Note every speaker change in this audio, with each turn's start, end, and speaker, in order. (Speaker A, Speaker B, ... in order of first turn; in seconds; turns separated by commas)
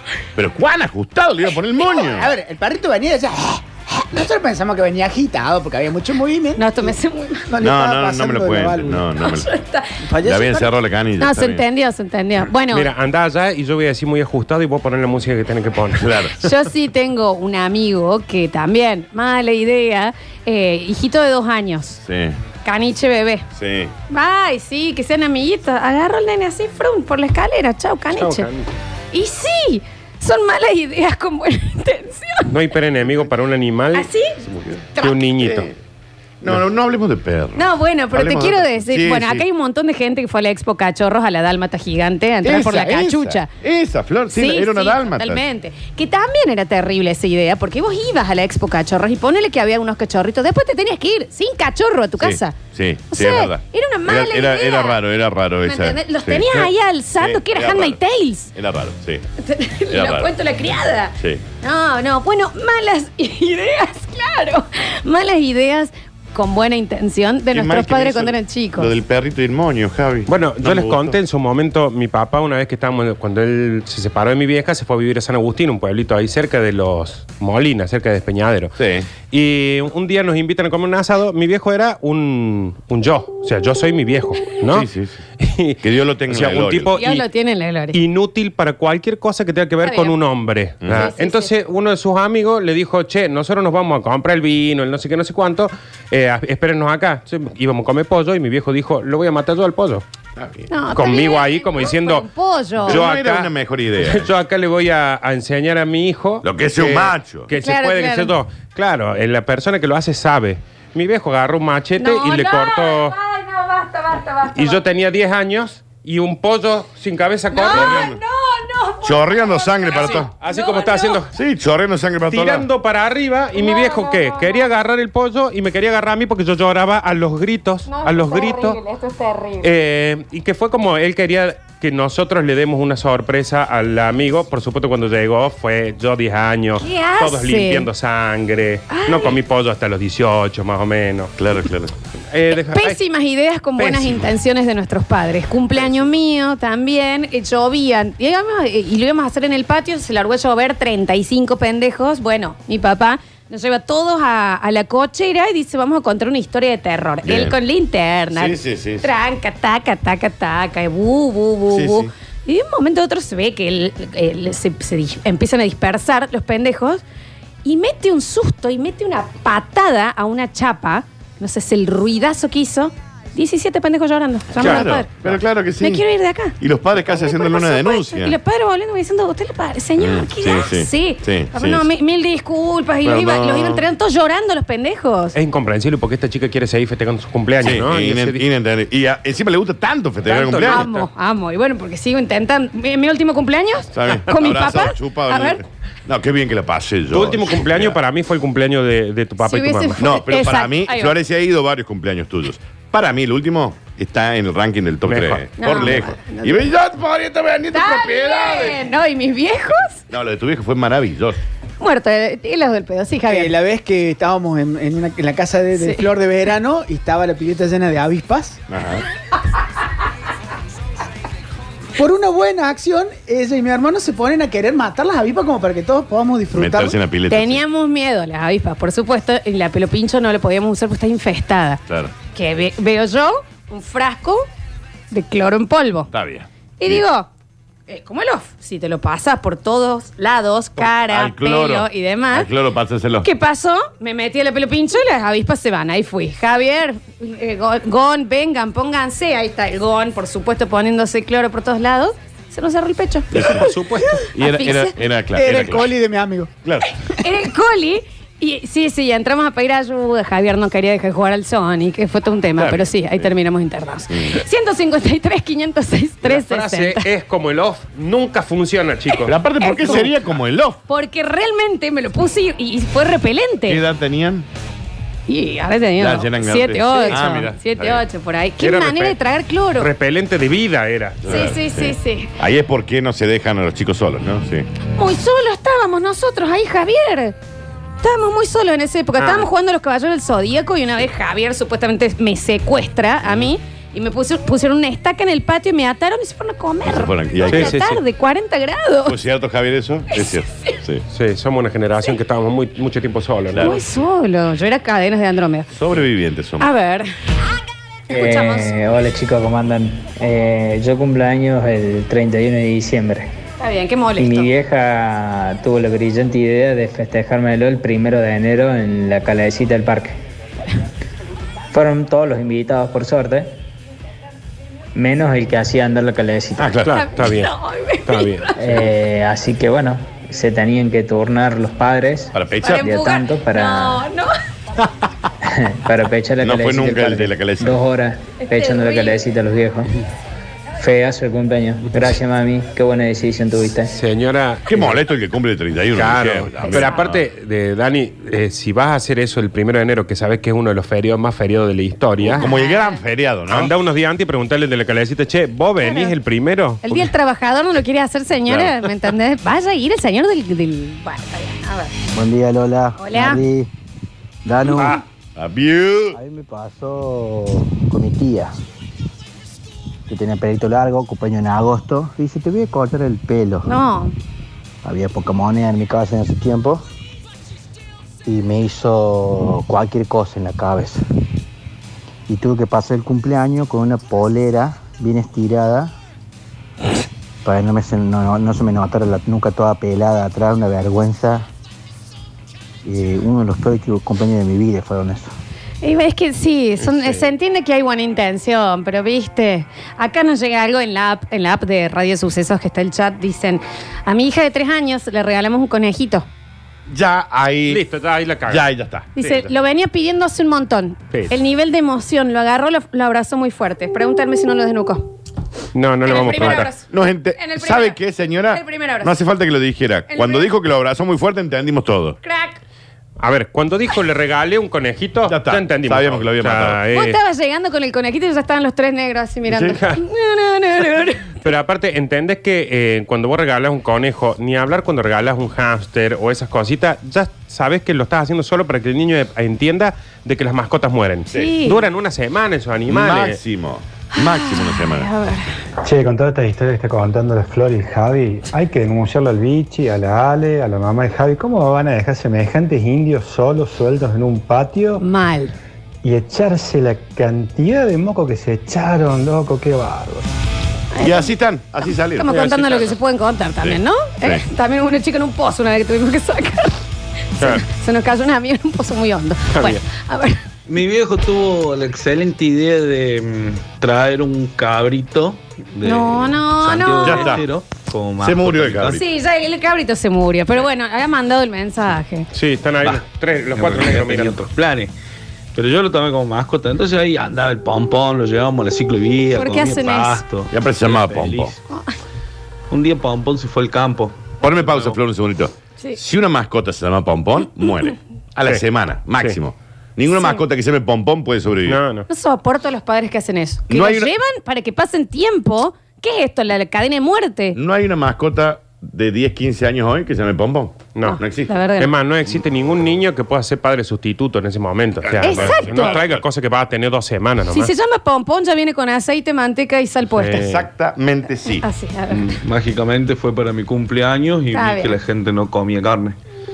Speaker A: 0.4-2.3, Speaker B: 2.0-7.0, Speaker C: 6.6-7.5, Speaker B: 7.5-9.1, Speaker A: 7.6-9.5, Speaker C: 9.2-10.7, Speaker B: 10.1-10.7, Speaker A: 10.2-11.6, Speaker C: 11.2-12.9, Speaker D: 12.7-16.3, Speaker A: 16.0-16.4, Speaker C: 16.4-22.0, Speaker A: 22.1-22.4, Speaker C: 22.6-23.5, Speaker A: 23.6-23.9, Speaker C: 24.1-28.5, Speaker D: 28.1-28.7, Speaker C: 29.1-32.5, Speaker D: 32.5-34.1, Speaker C: 34.0-34.4, Speaker A: 34.5-35.7, Speaker C: 35.0-35.2, Speaker D: 35.0-35.7, Speaker A: 36.4-39.4, Speaker C: 37.6-43.5, Speaker A: 42.4-45.4, Speaker C: 44.3-52.6, Speaker A: 52.2-58.0, Speaker C: 53.1-55.0, Speaker C: 55.6-58.5, Speaker A: 58.5-59.2, Speaker C: 59.4-68.9, Speaker A: 59.9-60.3, Speaker A: 67.5-71.2, Speaker D: 70.3-84.9, Speaker A: 78.8-79.1, Speaker A: 84.7-85.2, Speaker D: 85.4-87.2, Speaker A: 85.8-87.0, Speaker C: 87.0-88.0, Speaker D: 87.9-100.0, Speaker C: 89.8-90.2, Speaker A: 90.8-91.1, Speaker C: 90.9-91.5, Speaker A: 100.4-100.7, Speaker C: 100.7-103.0, Speaker D: 100.9-102.3, Speaker D: 102.8-113.2, Speaker A: 102.8-104.3, Speaker A: 106.4-107.5, Speaker C: 107.5-108.3, Speaker C: 112.0-114.8, Speaker D: 114.5-118.1, Speaker C: 117.5-121.2, Speaker A: 117.7-118.2, Speaker A: 119.0-120.3, Speaker D: 119.9-121.3, Speaker A: 121.3-122.7, Speaker D: 122.3-128.8, Speaker C: 123.5-124.7, Speaker C: 127.9-129.7, Speaker D: 129.6-141.3, Speaker C: 136.8-137.9, Speaker C: 138.9-139.4, Speaker A: 141.4-141.9, Speaker D: 142.3-143.0, Speaker C: 142.7-167.0, Speaker D: 143.8-144.3, Speaker A: 157.2-157.6, Speaker A: 158.3-159.1, Speaker A: 161.7-162.1, Speaker C: 167.6-175.1, Speaker A: 174.6-176.0, Speaker D: 174.6-174.9, Speaker C: 175.8-176.6, Speaker A: 176.6-178.4, Speaker C: 177.1-185.4, Speaker A: 180.0-181.9, Speaker A: 183.1-183.8, Speaker D: 185.3-188.5, Speaker A: 187.6-190.9, Speaker D: 190.2-191.1, Speaker C: 190.6-195.6, Speaker A: 193.9-198.0, Speaker D: 197.1-200.0, Speaker C: 199.4-201.2, Speaker A: 200.0-208.8, Speaker D: 205.1-205.4, Speaker C: 205.6-206.7, Speaker C: 207.7-210.0, Speaker A: 210.1-211.4, Speaker C: 211.8-213.5, Speaker B: 213.3-218.6, Speaker C: 215.8-216.1, Speaker A: 218.7-219.1, Speaker B: 222.0-227.0, Speaker A: 226.5-227.6, Speaker C: 227.3-231.8, Speaker A: 231.9-232.1, Speaker C: 232.3-234.4, Speaker C: 235.1-236.1, Speaker A: 236.1-237.0, Speaker C: 236.8-237.3, Speaker C: 237.9-242.5, Speaker A: 240.8-243.3, Speaker C: 243.2-254.9, Speaker A: 253.3-253.7, Speaker D: 253.3-254.3, Speaker A: 254.3-255.9, Speaker B: 255.3-256.5, Speaker A: 256.6-256.9, Speaker C: 257.1-267.1, Speaker A: 262.6-263.3, Speaker A: 264.1-264.4, Speaker D: 266.2-270.1, Speaker A: 269.2-270.8, Speaker C: 269.6-270.1, Speaker C: 270.9-273.8, Speaker A: 273.7-274.5, Speaker C: 275.3-279.9, Speaker A: 276.0-278.0, Speaker D: 278.6-279.2, Speaker D: 279.8-281.5, Speaker A: 281.2-284.7, Speaker C: 281.3-282.3, Speaker C: 285.0-287.4, Speaker C: 288.0-299.2, Speaker D: 289.2-289.5, Speaker A: 296.9-297.8, Speaker D: 297.5-298.0, Speaker A: 299.1-301.0, Speaker C: 300.1-300.7, Speaker D: 301.1-303.8, Speaker A: 303.5-303.8, Speaker C: 303.6-305.7, Speaker A: 305.7-306.7, Speaker C: 306.6-307.1, Speaker C: 308.1-308.7, Speaker E: 308.1-313.3, Speaker C: 313.6-314.5, Speaker E: 314.2-320.2, Speaker E: 321.7-323.5, Speaker E: 324.9-326.8, Speaker A: 326.6-326.9, Speaker D: 326.9-327.5, Speaker C: 326.9-328.8, Speaker D: 328.1-328.5, Speaker E: 328.6-334.1, Speaker A: 332.3-332.9, Speaker C: 332.6-334.3, Speaker E: 335.4-339.9, Speaker A: 336.4-337.8, Speaker C: 338.4-339.2, Speaker E: 340.8-344.0, Speaker D: 343.9-345.0, Speaker A: 344.7-347.2, Speaker D: 345.9-352.5, Speaker C: 346.7-347.0, Speaker A: 352.2-353.7, Speaker C: 352.3-353.0, Speaker D: 353.5-357.1, Speaker C: 355.8-356.1, Speaker C: 356.8-361.9, Speaker F: 362.1-363.7, Speaker C: 363.0-363.4, Speaker F: 364.4-365.0, Speaker C: 364.7-365.0, Speaker A: 365.4-366.2, Speaker F: 366.1-368.5, Speaker F: 370.1-373.8, Speaker C: 373.6-374.1, Speaker F: 374.8-376.8, Speaker F: 378.2-381.0, Speaker F: 382.3-385.9, Speaker F: 387.4-391.5, Speaker F: 392.8-395.3, Speaker C: 395.8-406.3, Speaker D: 396.8-397.3, Speaker A: 406.9-407.8, Speaker D: 407.7-408.7, Speaker A: 408.5-409.1, Speaker C: 409.2-415.1, Speaker D: 415.7-416.7, Speaker C: 416.1-419.1, Speaker A: 416.1-422.2, Speaker C: 420.1-420.5, Speaker C: 422.2-422.6, Speaker D: 423.2-427.2, Speaker A: 425.3-426.8, Speaker C: 426.9-431.4, Speaker A: 429.5-429.8, Speaker D: 431.4-443.4, Speaker C: 441.3-441.9, Speaker A: 442.9-445.1, Speaker C: 444.1-445.5, Speaker G: 445.8-455.0, Speaker C: 455.0-455.5, Speaker G: 456.0-460.3, Speaker C: 460.9-461.3, Speaker A: 461.0-462.4, Speaker C: 462.1-466.8, Speaker D: 462.3-463.0, Speaker A: 463.6-464.4, Speaker C: 467.4-470.4, Speaker D: 469.5-469.8, Speaker H: 470.7-479.0, Speaker C: 475.8-477.4, Speaker A: 477.1-477.4, Speaker A: 478.2-479.0, Speaker C: 478.9-482.3, Speaker D: 482.3-484.4, Speaker H: 482.8-484.9, Speaker H: 485.6-491.6, Speaker C: 489.4-490.2, Speaker A: 490.5-491.5, Speaker H: 492.7-494.2, Speaker A: 494.4-501.8, Speaker C: 500.1-500.4, Speaker D: 501.7-502.1, Speaker C: 502.1-507.6, Speaker A: 503.7-504.1, Speaker A: 507.6-511.5, Speaker D: 510.9-511.2, Speaker C: 511.0-511.9, Speaker D: 511.8-517.7, Speaker A: 515.1-516.2, Speaker C: 515.2-516.0, Speaker C: 517.5-520.4, Speaker D: 520.1-520.7, Speaker A: 520.3-521.7, Speaker C: 521.5-522.4, Speaker H: 522.1-526.2, Speaker C: 524.5-525.0